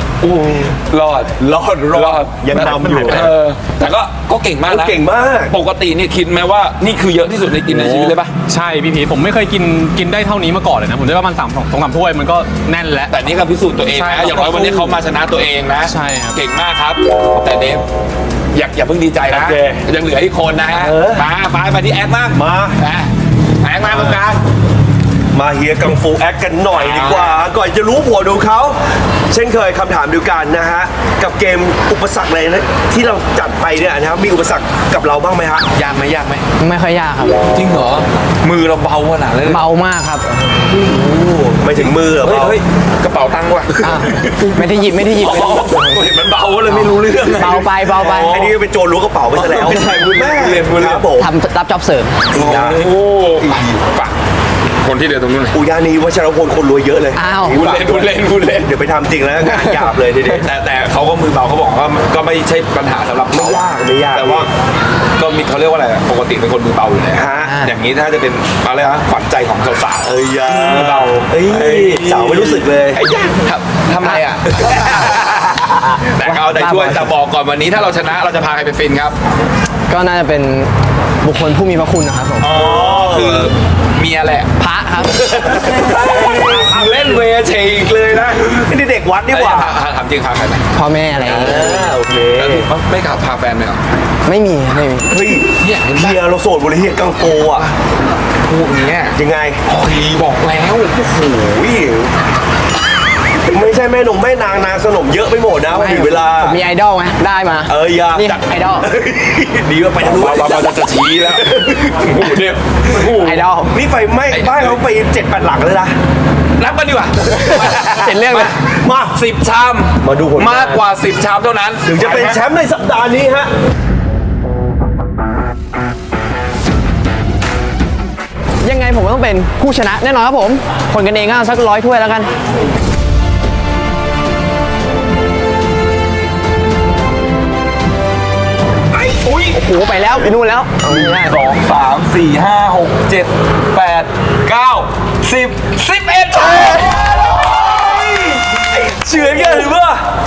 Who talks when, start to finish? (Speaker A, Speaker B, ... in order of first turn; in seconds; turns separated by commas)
Speaker A: 0.2-0.7, Speaker B: 0.7-8.3, Speaker A: 1.8-3.3, Speaker A: 4.7-5.5, Speaker C: 7.7-13.1, Speaker B: 13.1-17.8, Speaker C: 13.9-15.0, Speaker C: 15.8-16.4, Speaker B: 18.5-23.1, Speaker A: 19.3-19.8, Speaker A: 20.8-21.3, Speaker A: 22.3-22.8, Speaker B: 23.6-24.4, Speaker A: 25.3-35.7, Speaker B: 26.7-27.5, Speaker B: 35.7-36.5, Speaker D: 36.6-37.4, Speaker B: 37.5-39.7, Speaker D: 39.5-40.6, Speaker A: 40.7-42.6, Speaker B: 41.8-44.4, Speaker D: 43.8-46.1, Speaker B: 45.0-48.5, Speaker D: 46.7-48.5, Speaker A: 48.2-51.3, Speaker B: 49.3-51.1, Speaker D: 49.7-50.1, Speaker D: 51.2-52.5, Speaker B: 52.3-54.2, Speaker A: 52.4-52.8, Speaker B: 54.8-55.6, Speaker A: 55.5-60.3, Speaker D: 57.1-57.5, Speaker B: 57.5-58.7, Speaker D: 59.5-59.9, Speaker B: 60.3-64.5, Speaker A: 63.3-64.5, Speaker B: 65.2-79.2, Speaker A: 67.1-67.5, Speaker D: 67.5-67.7, Speaker A: 70.0-73.0, Speaker D: 76.2-77.2, Speaker D: 79.9-80.7, Speaker D: 81.2-82.5, Speaker B: 82.4-84.5, Speaker A: 82.6-83.5, Speaker D: 84.6-86.0, Speaker B: 85.3-88.6, Speaker A: 86.2-86.8, Speaker A: 88.6-89.8, Speaker B: 89.3-90.7, Speaker D: 90.7-91.9, Speaker A: 91.2-92.7, Speaker B: 91.3-93.8, Speaker D: 94.3-95.1, Speaker A: 95.1-97.7, Speaker B: 95.6-96.2, Speaker B: 97.5-97.8, Speaker B: 98.4-102.1, Speaker A: 99.2-99.6, Speaker A: 103.5-106.6, Speaker D: 105.7-108.9, Speaker A: 107.7-110.6, Speaker B: 110.0-113.5, Speaker D: 113.0-113.7, Speaker A: 113.7-116.0, Speaker B: 114.3-114.8, Speaker B: 116.6-118.6, Speaker D: 117.5-118.5, Speaker A: 118.7-119.2, Speaker B: 119.1-122.4, Speaker A: 120.0-120.8, Speaker A: 121.9-123.5, Speaker D: 128.6-132.3, Speaker B: 138.9-139.6, Speaker D: 139.5-141.4, Speaker B: 140.8-150.0, Speaker A: 149.1-149.8